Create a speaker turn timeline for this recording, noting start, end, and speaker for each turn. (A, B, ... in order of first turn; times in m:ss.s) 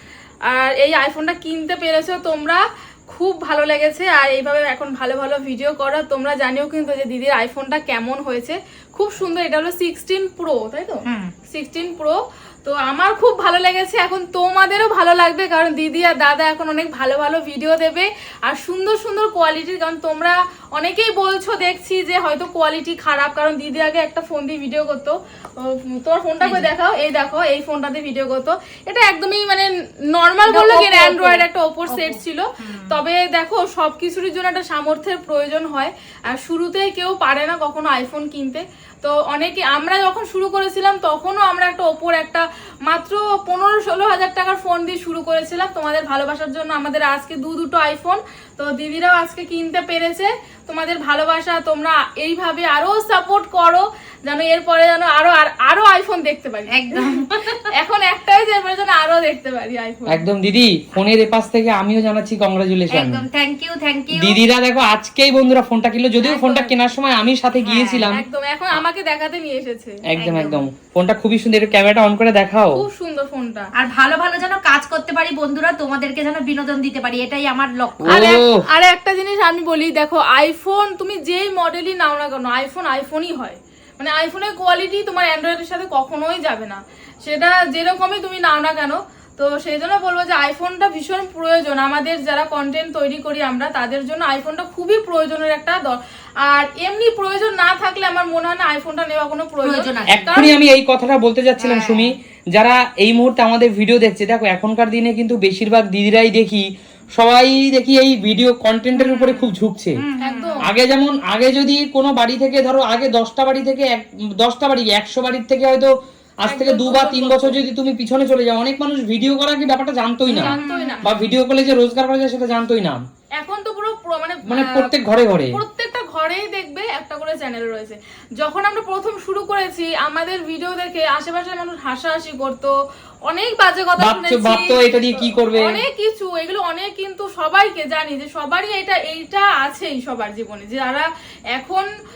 0:00.5-1:00.3 A
0:11.1-0:11.3 B
0:26.4-0:26.7 B
0:30.5-0:33.0 B
0:56.7-0:57.7 B
1:00.1-1:03.2 C
1:02.9-1:04.4 B
1:04.1-1:08.8 C
1:06.2-1:06.7 B
1:07.6-1:08.1 B
1:08.1-1:10.0 A
1:10.1-1:12.8 C
1:10.2-1:10.7 B
1:12.7-1:13.7 A
1:13.8-1:18.3 B
1:18.0-1:18.6 C
1:18.1-1:40.6 A
1:39.6-1:40.4 B
1:40.1-1:46.6 C
1:41.6-1:42.1 B
1:47.2-1:50.0 C
1:49.0-1:50.5 B
1:50.2-1:50.6 A
1:50.7-1:55.9 C
1:56.4-2:03.0 C
1:56.4-1:57.6 A
2:00.3-2:01.1 A
2:00.3-2:01.2 B
2:03.4-2:04.9 A
2:04.5-2:05.6 C
2:05.5-2:12.7 A
2:13.3-2:21.9 A
2:14.0-2:15.8 C